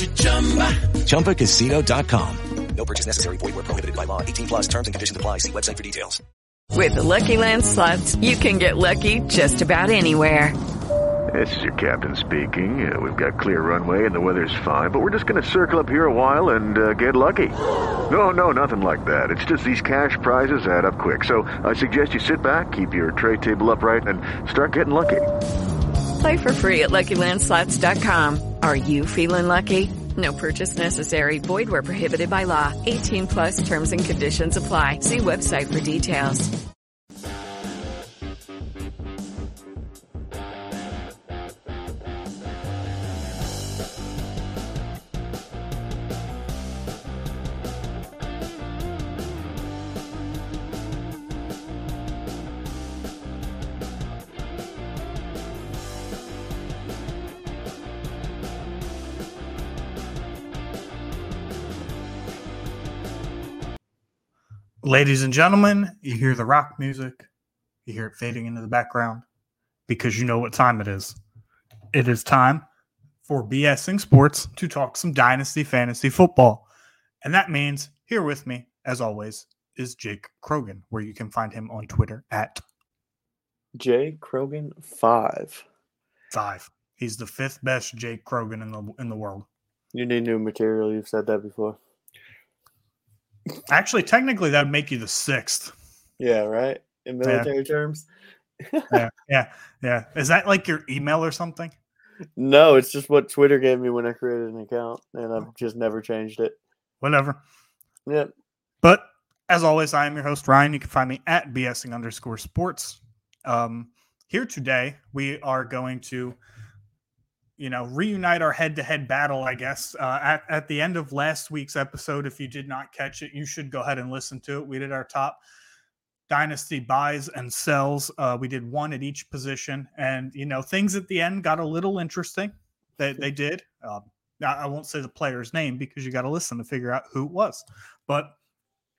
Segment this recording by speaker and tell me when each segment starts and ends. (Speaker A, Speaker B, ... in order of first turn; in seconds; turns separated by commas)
Speaker A: 0.9-6.2, Speaker B: 6.7-10.6, Speaker C: 11.3-17.6, Speaker C: 18.1-25.3, Speaker B: 26.2-36.5, Speaker D: 64.8-67.3, Speaker D: 67.8-69.2, Speaker D: 69.9-71.2, Speaker D: 71.9-72.6, Speaker D: 73.2-76.6, Speaker D: 77.2-82.6, Speaker E: 83.8-85.6, Speaker D: 86.3-89.5, Speaker E: 89.9-91.8, Speaker D: 93.7-95.7, Speaker E: 96.2-98.1, Speaker D: 97.2-97.5, Speaker E: 98.6-98.9, Speaker D: 98.9-101.7, Speaker E: 102.4-106.5, Speaker D: 107.0-107.4, Speaker E: 108.0-108.3, Speaker D: 108.8-116.4, Speaker D: 117.6-125.4, Speaker D: 126.3-138.3